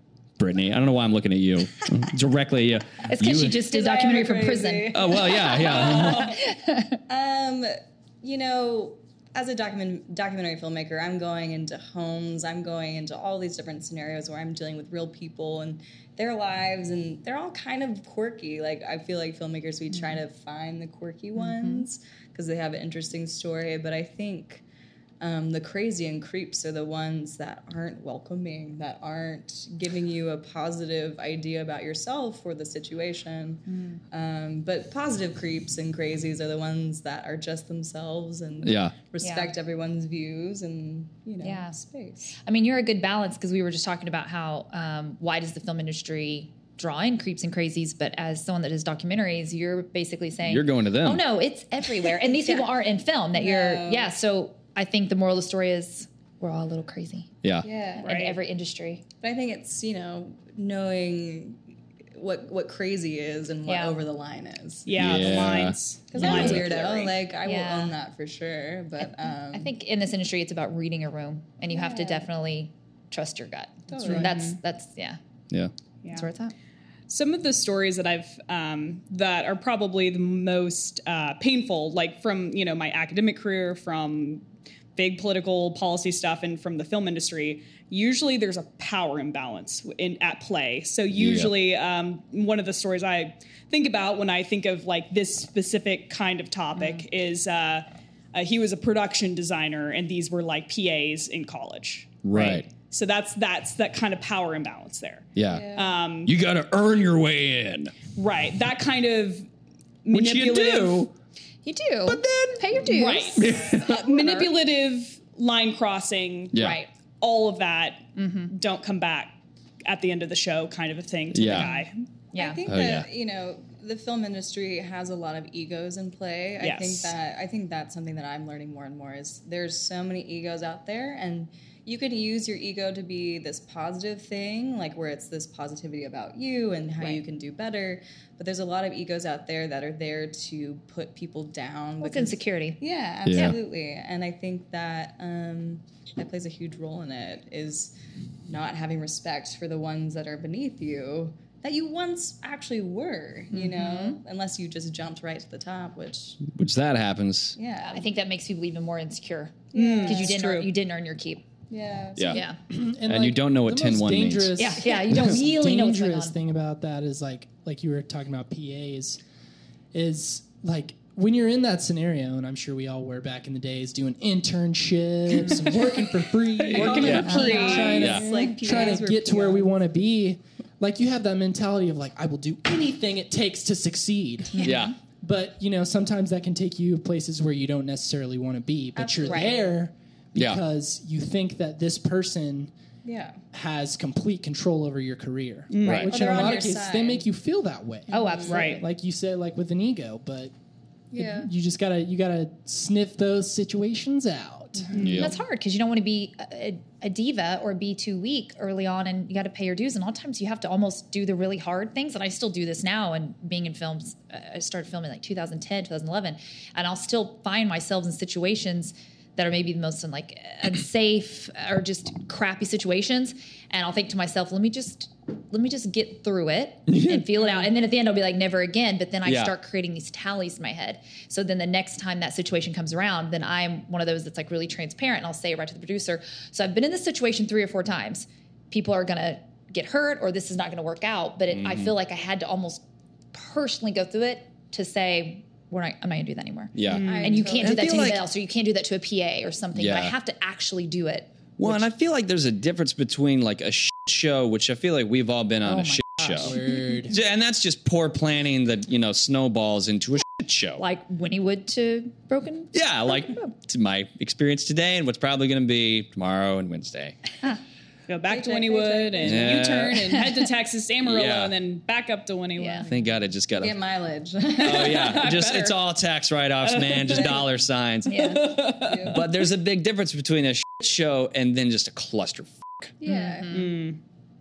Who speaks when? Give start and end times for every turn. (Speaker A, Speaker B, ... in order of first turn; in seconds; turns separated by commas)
Speaker A: 0.4-3.6, Speaker B: 3.1-7.0, Speaker C: 3.6-6.4, Speaker A: 4.9-6.4, Speaker C: 7.1-24.6, Speaker B: 19.9-20.2, Speaker B: 21.4-21.9, Speaker C: 25.2-42.3, Speaker B: 33.7-34.0, Speaker A: 38.6-39.0, Speaker B: 39.2-39.5, Speaker B: 41.4-41.8, Speaker B: 42.4-57.3, Speaker A: 50.4-51.2, Speaker C: 53.4-54.1, Speaker C: 57.6-58.1, Speaker B: 58.0-59.0, Speaker D: 58.0-58.4, Speaker C: 59.2-61.6, Speaker C: 62.2-65.1, Speaker B: 63.7-64.0, Speaker D: 64.9-67.2, Speaker A: 65.0-66.8, Speaker C: 66.1-69.7, Speaker B: 67.4-68.0, Speaker B: 69.0-75.2, Speaker C: 71.7-72.3, Speaker C: 73.9-74.5, Speaker D: 74.0-74.5, Speaker B: 76.1-76.5, Speaker D: 77.1-84.5, Speaker D: 85.0-106.3, Speaker A: 91.1-91.5, Speaker B: 96.8-97.0, Speaker A: 102.2-102.7, Speaker A: 105.4-105.7, Speaker C: 105.5-106.0, Speaker A: 106.2-107.9, Speaker D: 108.2-109.5, Speaker D: 110.0-111.1, Speaker A: 110.1-111.1, Speaker B: 111.7-114.5, Speaker A: 112.1-114.0, Speaker D: 112.8-116.6, Speaker A: 116.5-116.8, Speaker B: 116.6-116.9, Speaker D: 117.2-122.0, Speaker B: 118.2-118.5, Speaker A: 121.3-121.7, Speaker B: 122.3-122.6, Speaker C: 122.3-147.9, Speaker A: 122.7-123.1, Speaker D: 126.6-127.2, Speaker B: 142.0-143.6, Speaker A: 143.2-143.6, Speaker C: 148.5-156.4, Speaker B: 153.5-154.2, Speaker A: 156.4-157.6, Speaker C: 157.6-158.1, Speaker B: 157.8-161.4, Speaker C: 159.7-160.7, Speaker D: 159.7-160.6, Speaker C: 161.7-162.4, Speaker A: 162.2-162.4, Speaker B: 162.3-162.6, Speaker E: 162.7-169.2, Speaker A: 163.1-165.3, Speaker B: 164.6-166.4, Speaker E: 169.9-192.7, Speaker A: 176.7-178.3, Speaker D: 176.7-178.0, Speaker C: 176.7-179.7, Speaker B: 177.2-178.2, Speaker B: 184.5-184.9, Speaker A: 184.6-185.0, Speaker C: 189.0-189.7, Speaker B: 189.3-189.6, Speaker A: 190.3-190.6, Speaker C: 193.0-193.4, Speaker E: 193.5-200.5, Speaker D: 195.7-196.4, Speaker A: 195.8-196.2, Speaker C: 196.0-197.2, Speaker C: 198.1-198.7, Speaker B: 198.1-198.8, Speaker D: 198.5-198.8, Speaker C: 201.1-201.5, Speaker E: 201.2-205.0, Speaker D: 204.9-205.3, Speaker A: 205.0-205.4, Speaker B: 205.1-251.8, Speaker A: 226.9-227.4, Speaker A: 229.2-229.5, Speaker A: 241.5-241.9, Speaker A: 246.7-248.2, Speaker D: 246.9-247.4, Speaker C: 247.0-248.1, Speaker A: 249.8-250.1, Speaker A: 251.6-260.8, Speaker B: 255.6-257.0, Speaker E: 256.4-257.1, Speaker B: 260.8-263.5, Speaker A: 262.7-267.1, Speaker D: 268.1-272.9, Speaker C: 268.3-269.7, Speaker A: 269.2-270.1, Speaker A: 271.0-271.5, Speaker B: 272.6-272.9, Speaker A: 272.9-273.8, Speaker C: 273.6-275.3, Speaker D: 274.6-275.8, Speaker A: 274.6-282.9, Speaker D: 276.6-277.4, Speaker C: 277.1-277.4, Speaker B: 278.1-278.6, Speaker D: 278.1-279.3, Speaker C: 278.7-279.3, Speaker C: 283.0-283.8, Speaker B: 283.1-283.8, Speaker D: 283.5-284.0